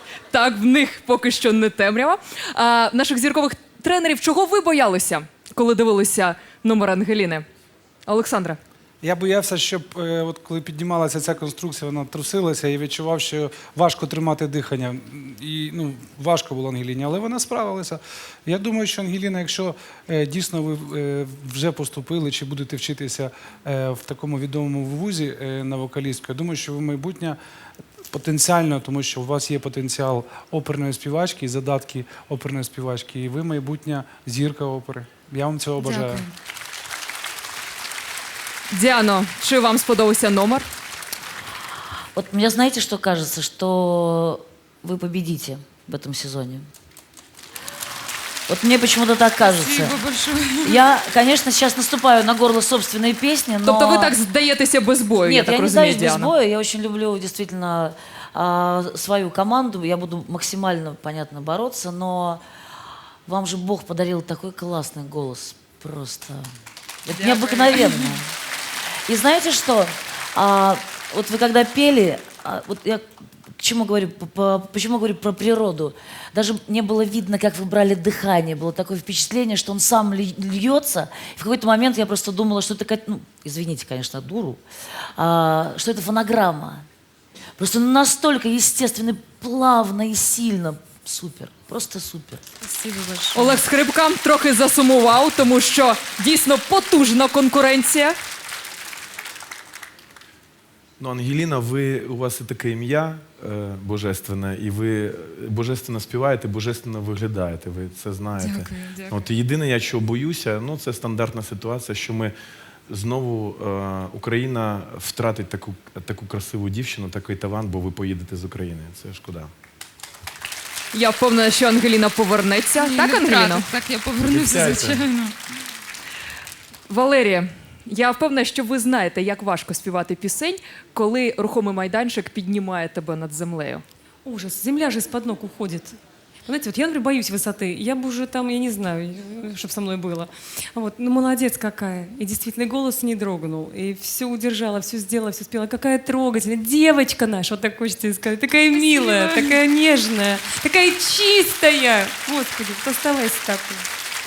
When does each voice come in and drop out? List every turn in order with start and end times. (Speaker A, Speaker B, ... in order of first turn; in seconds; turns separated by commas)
Speaker A: 0.3-7.4, Speaker A: 8.1-8.6, Speaker B: 9.0-27.4, Speaker B: 28.1-36.2, Speaker A: 38.7-40.7, Speaker C: 42.1-46.7, Speaker C: 48.5-50.0, Speaker C: 50.6-54.2, Speaker A: 53.6-56.3, Speaker C: 55.2-62.4, Speaker C: 63.2-66.5, Speaker C: 67.0-68.3, Speaker C: 69.1-73.0, Speaker C: 73.5-84.6, Speaker C: 85.2-86.8, Speaker C: 87.6-92.4, Speaker D: 92.6-93.6, Speaker A: 93.3-98.1, Speaker E: 101.0-112.3, Speaker F: 108.3-109.2, Speaker E: 112.9-119.5, Speaker A: 120.9-123.7, Speaker F: 122.8-125.3, Speaker E: 124.2-125.0, Speaker A: 126.9-133.8, Speaker D: 134.2-153.8